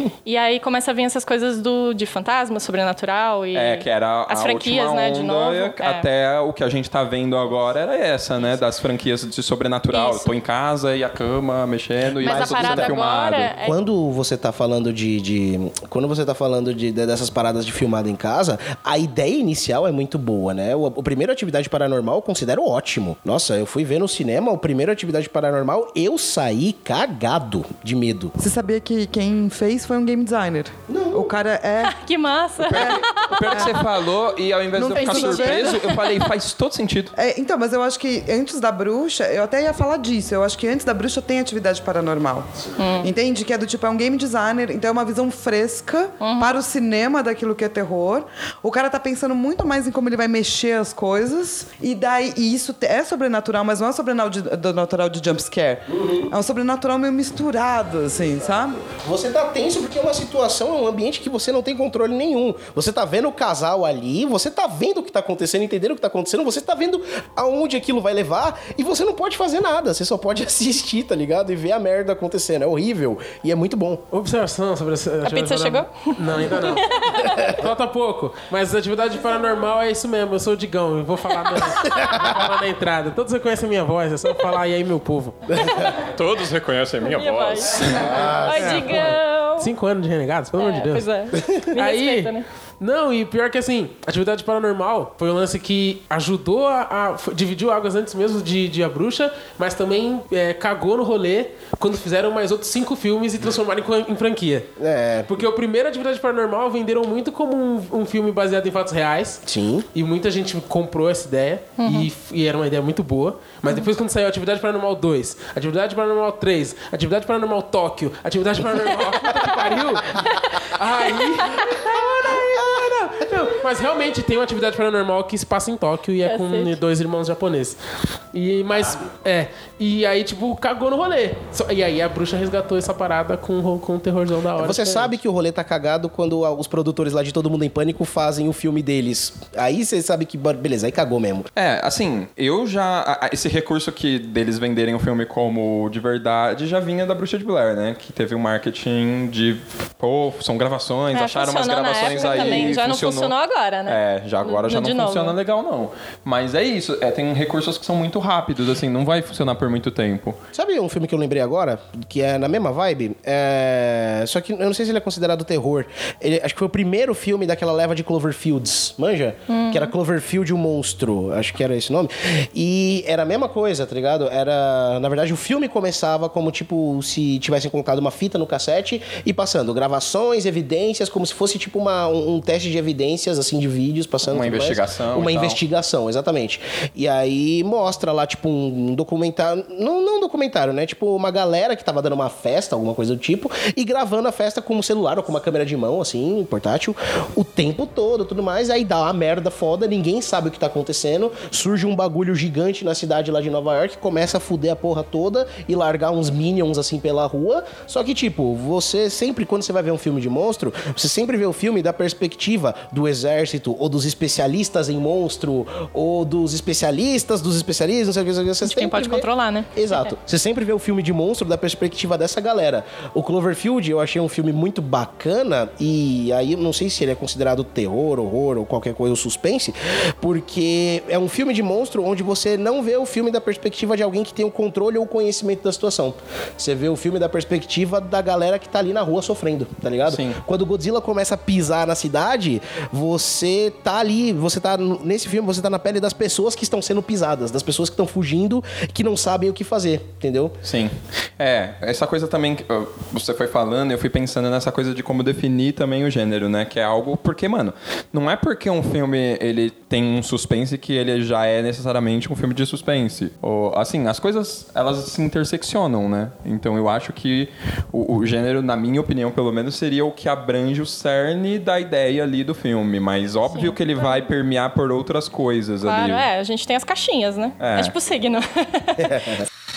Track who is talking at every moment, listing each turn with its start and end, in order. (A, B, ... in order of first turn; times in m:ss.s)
0:00.2-0:06.1 A
0:03.5-0:13.5 B
0:09.9-0:10.3 A
0:12.1-0:13.0 C
0:12.2-0:13.8 A
0:13.6-0:28.4 C
0:28.4-0:32.0 D
0:30.9-0:31.4 C
0:31.8-0:33.8 A
0:32.6-0:37.1 B
0:32.7-0:33.8 D
0:34.8-0:36.0 D
0:34.9-0:36.3 A
0:37.2-0:58.8 D
0:42.8-0:43.1 A
0:46.2-0:46.6 A
0:55.9-0:56.3 C
0:58.4-1:14.1 C
1:14.1-1:25.9 E
1:15.2-1:17.5 A
1:25.6-1:26.0 A
1:26.1-1:28.3 B
1:27.0-1:29.7 A
1:28.0-1:28.8 C
1:28.1-1:31.1 E
1:30.6-1:32.4 A
1:31.7-1:44.7 E
1:44.8-1:45.4 C
1:45.3-2:07.8 E
1:49.4-1:49.9 C
1:51.8-1:52.1 A
2:02.2-2:03.0 C
2:06.2-2:06.8 A
2:08.3-2:15.1 E
2:14.6-2:21.5 C
2:21.6-2:33.3 B
2:31.1-2:35.4 A
2:32.0-2:32.8 C
2:33.9-2:40.4 B
2:40.5-4:10.6 C
2:49.5-2:49.9 A
3:04.3-3:05.6 B
3:38.6-3:40.1 A
4:00.1-4:00.4 B
4:10.6-4:36.2 B
4:33.5-4:34.3 A
4:35.8-4:39.4 A
4:37.6-4:37.9 B